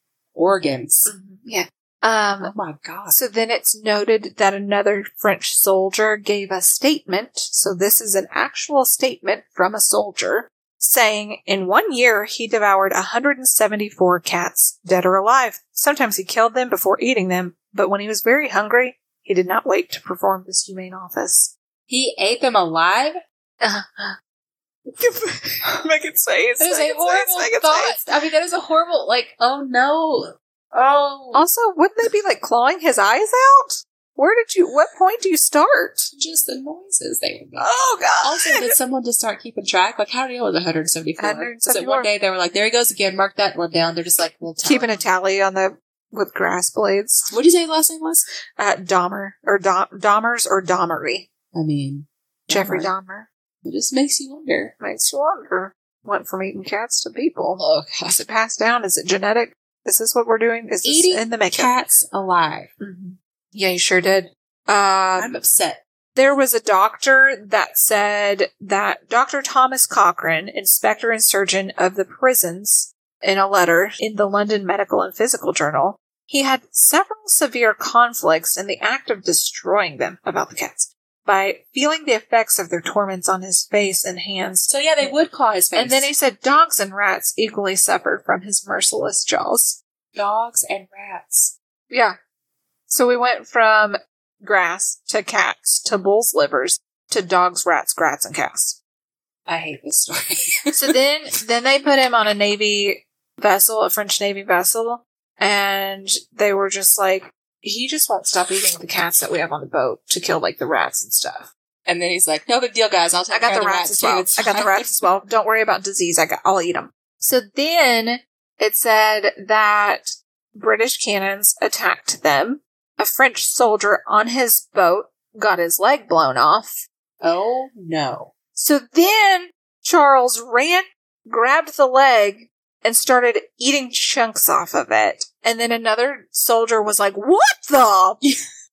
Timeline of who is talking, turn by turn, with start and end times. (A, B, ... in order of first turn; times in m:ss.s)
0:00.4-0:01.1 A
0:01.1-0:02.5 B
0:02.4-0:03.2 A
0:03.1-0:21.5 B
0:21.9-0:23.2 A
0:23.6-0:24.2 B
0:24.9-0:28.0 B
0:26.6-0:31.4 A
0:31.3-0:36.1 B
0:36.1-0:45.1 A
0:37.6-0:38.8 B
0:41.2-0:42.1 B
0:44.6-0:47.4 B
0:47.3-0:48.2 A
0:48.6-0:51.3 B
0:51.5-0:52.9 A
0:52.5-0:53.3 B
0:53.6-0:54.7 A
0:54.8-1:01.7 B
0:57.6-0:58.2 A
1:00.8-1:02.7 A
1:02.8-1:05.4 B
1:05.2-1:05.8 A
1:06.2-1:25.1 B
1:24.7-1:26.1 A
1:25.8-1:29.8 B
1:30.2-1:31.5 A
1:31.9-1:32.2 B
1:32.9-1:38.8 B
1:39.5-1:41.0 A
1:40.7-1:51.5 B
1:51.9-1:55.0 A
1:53.3-2:06.8 B
2:07.2-2:08.3 A
2:08.6-2:18.2 B